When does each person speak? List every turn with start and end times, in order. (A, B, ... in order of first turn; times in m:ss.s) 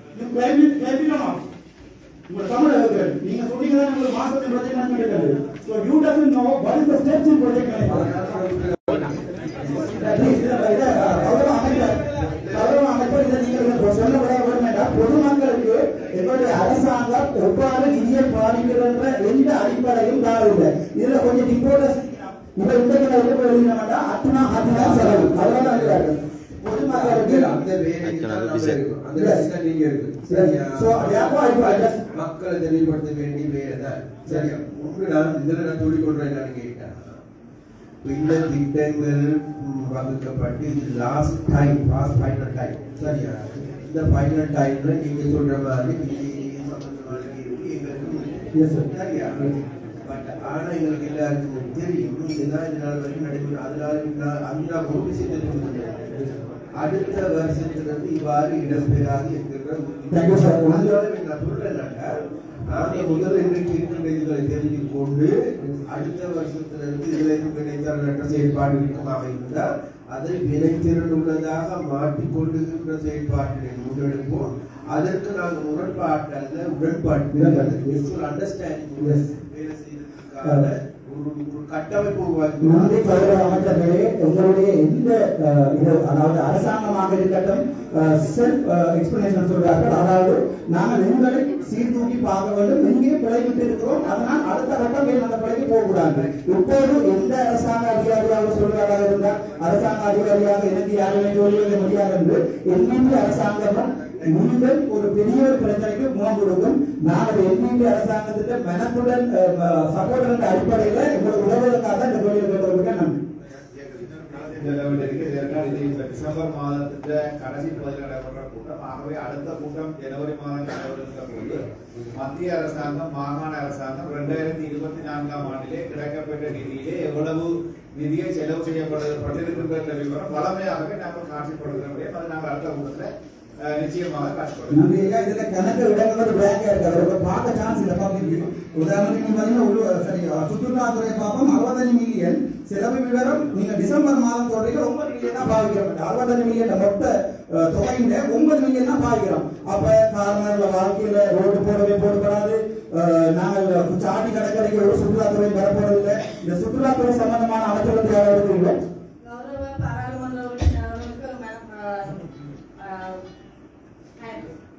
0:00.1-0:01.4 A
0:02.3-0:08.4 A
0:07.8-0:12.6 B
0:09.9-0:27.6 A
0:24.7-0:37.2 B
0:29.1-0:29.4 A
0:30.2-0:32.0 A
0:34.2-0:34.5 A
0:38.0-0:49.5 B
0:48.5-0:48.8 A
0:50.0-1:02.1 B
1:00.1-1:01.0 A
1:02.6-1:23.6 B
1:17.3-1:17.9 A
1:19.0-1:19.3 A
1:22.6-1:53.2 A
1:36.0-1:36.4 B
1:53.7-2:01.6 C
2:02.1-2:13.1 C
2:13.6-2:14.8 C
2:14.7-2:38.8 A
2:39.2-2:42.2 D
2:42.8-2:43.2 D
2:44.2-2:44.5 D